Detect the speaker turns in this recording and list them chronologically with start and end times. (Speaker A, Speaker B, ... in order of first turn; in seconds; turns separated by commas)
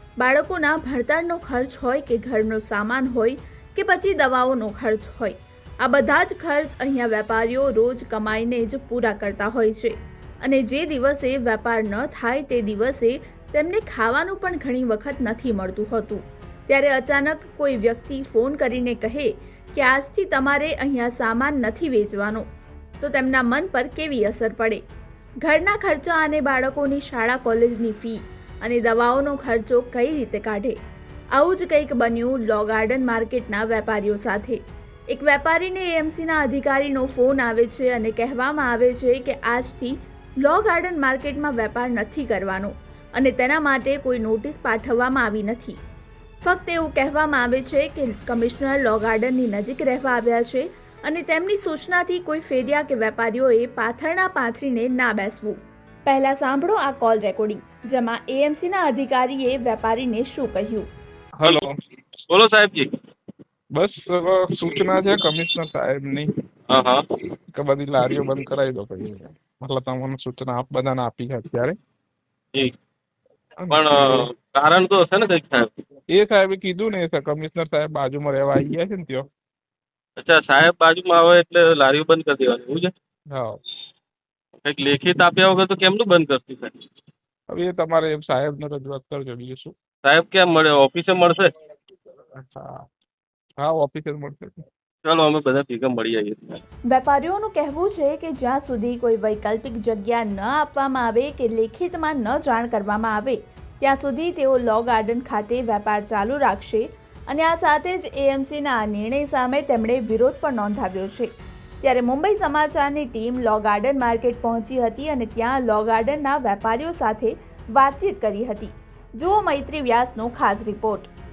Speaker A: 0.2-22.4, Speaker A: 23.0-24.8, Speaker A: 25.4-30.8, Speaker A: 31.3-45.8, Speaker A: 46.4-60.9, Speaker B: 61.4-61.8, Speaker C: 62.3-62.9, Speaker B: 63.7-66.3, Speaker C: 66.7-67.0, Speaker B: 67.5-71.8, Speaker B: 73.6-74.3, Speaker C: 73.7-75.7, Speaker B: 76.1-79.3, Speaker C: 80.2-82.9, Speaker B: 83.3-83.6, Speaker C: 84.6-86.7, Speaker B: 87.5-89.8, Speaker C: 90.0-91.5, Speaker B: 92.3-92.8, Speaker B: 93.6-94.6, Speaker C: 95.0-96.6, Speaker A: 96.9-111.3, Speaker A: 111.8-121.1